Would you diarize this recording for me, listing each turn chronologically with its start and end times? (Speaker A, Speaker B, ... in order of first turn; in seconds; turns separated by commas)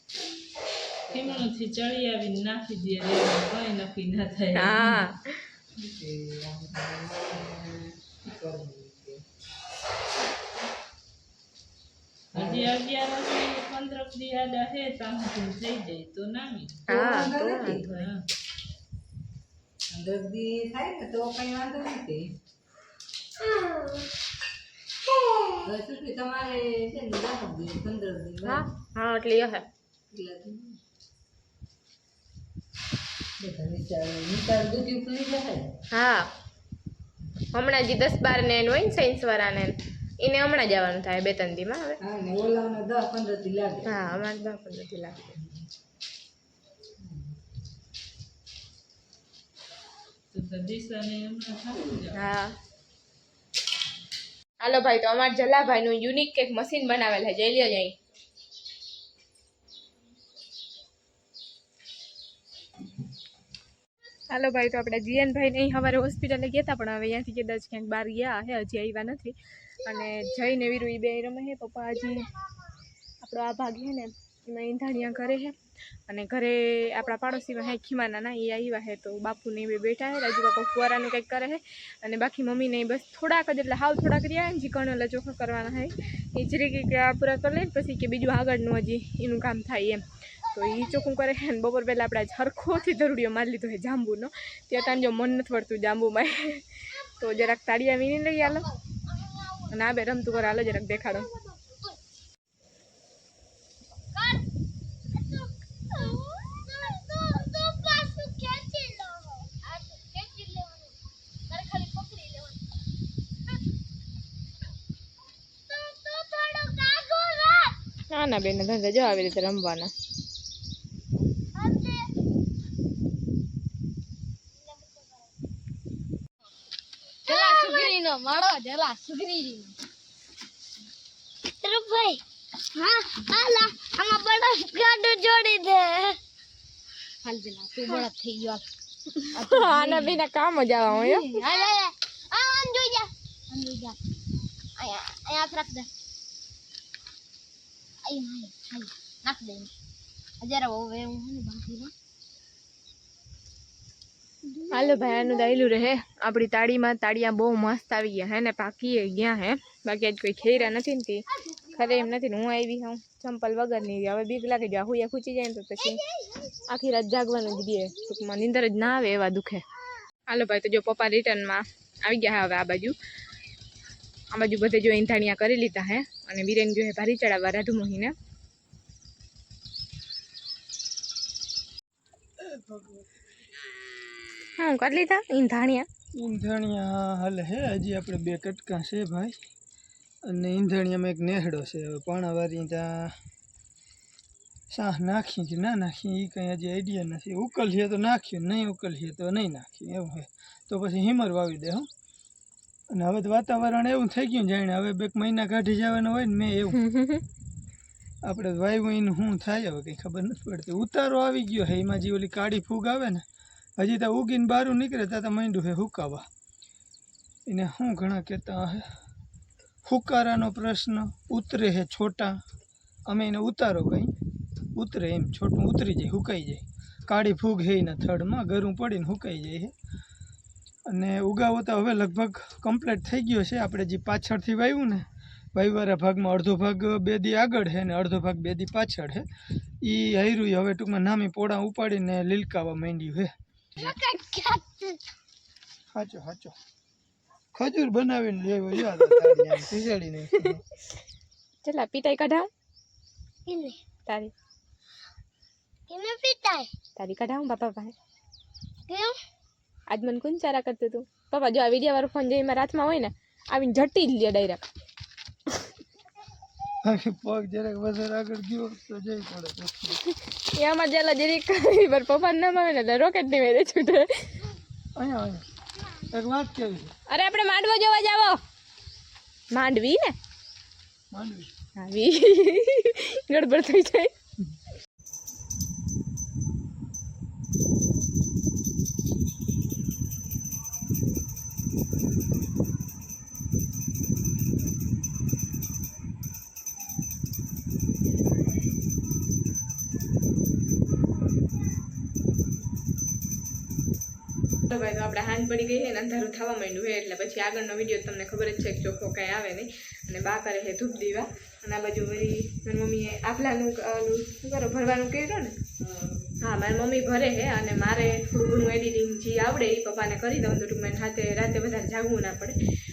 Speaker A: 1.1-1.5, Speaker B: 1.1-5.1, Speaker C: 4.5-5.4, Speaker A: 5.8-9.2, Speaker A: 12.3-12.7, Speaker B: 12.3-16.8, Speaker C: 16.9-17.8, Speaker A: 16.9-17.9, Speaker B: 17.7-18.2, Speaker A: 19.9-22.3, Speaker A: 25.6-28.6, Speaker C: 28.4-29.6, Speaker A: 30.1-30.8, Speaker A: 33.4-35.7, Speaker C: 35.9-36.3, Speaker C: 37.5-42.0, Speaker A: 42.0-44.0, Speaker C: 43.9-45.4, Speaker A: 47.0-47.4, Speaker B: 50.3-52.2, Speaker C: 52.1-52.5, Speaker C: 54.6-57.9, Speaker C: 64.3-72.3, Speaker C: 73.2-75.5, Speaker C: 76.1-98.7, Speaker C: 99.7-101.3, Speaker D: 100.9-102.0, Speaker D: 104.1-104.4, Speaker D: 105.1-110.9, Speaker D: 111.5-112.6, Speaker D: 115.7-117.8, Speaker C: 118.1-119.9, Speaker D: 121.5-122.1, Speaker D: 124.6-125.3, Speaker D: 127.2-129.8, Speaker C: 127.3-127.9, Speaker D: 131.6-132.2, Speaker D: 132.7-136.2, Speaker D: 137.2-138.6, Speaker D: 139.3-140.2, Speaker C: 139.3-141.4, Speaker D: 140.9-144.0, Speaker D: 144.8-145.9, Speaker D: 148.0-149.7, Speaker D: 150.4-151.9, Speaker D: 154.5-155.6, Speaker C: 154.7-166.0, Speaker D: 161.7-162.1, Speaker D: 165.8-166.6, Speaker C: 166.7-169.6, Speaker C: 170.3-172.9, Speaker C: 174.3-178.1, Speaker E: 182.4-183.1, Speaker C: 184.6-185.9, Speaker E: 186.1-189.3, Speaker E: 190.2-193.1, Speaker E: 194.7-201.9, Speaker E: 202.9-206.8, Speaker C: 206.8-207.2, Speaker E: 208.2-213.2, Speaker E: 213.8-216.2, Speaker E: 217.4-218.8, Speaker E: 219.8-222.4, Speaker E: 223.1-224.1, Speaker E: 224.7-229.7, Speaker E: 230.9-239.2, Speaker E: 239.8-243.9, Speaker D: 243.8-245.0, Speaker E: 245.9-246.5, Speaker E: 247.5-250.6, Speaker C: 251.6-252.5, Speaker D: 253.5-253.8, Speaker C: 254.1-254.3, Speaker D: 255.9-256.7, Speaker C: 257.0-257.9, Speaker D: 258.9-259.2, Speaker C: 259.9-264.7, Speaker E: 266.8-270.0, Speaker C: 270.5-274.3, Speaker E: 274.9-275.4, Speaker E: 276.1-276.9, Speaker C: 277.1-278.4, Speaker C: 279.5-280.1, Speaker E: 281.1-281.5, Speaker C: 281.8-284.1, Speaker C: 304.7-315.6, Speaker C: 316.3-322.6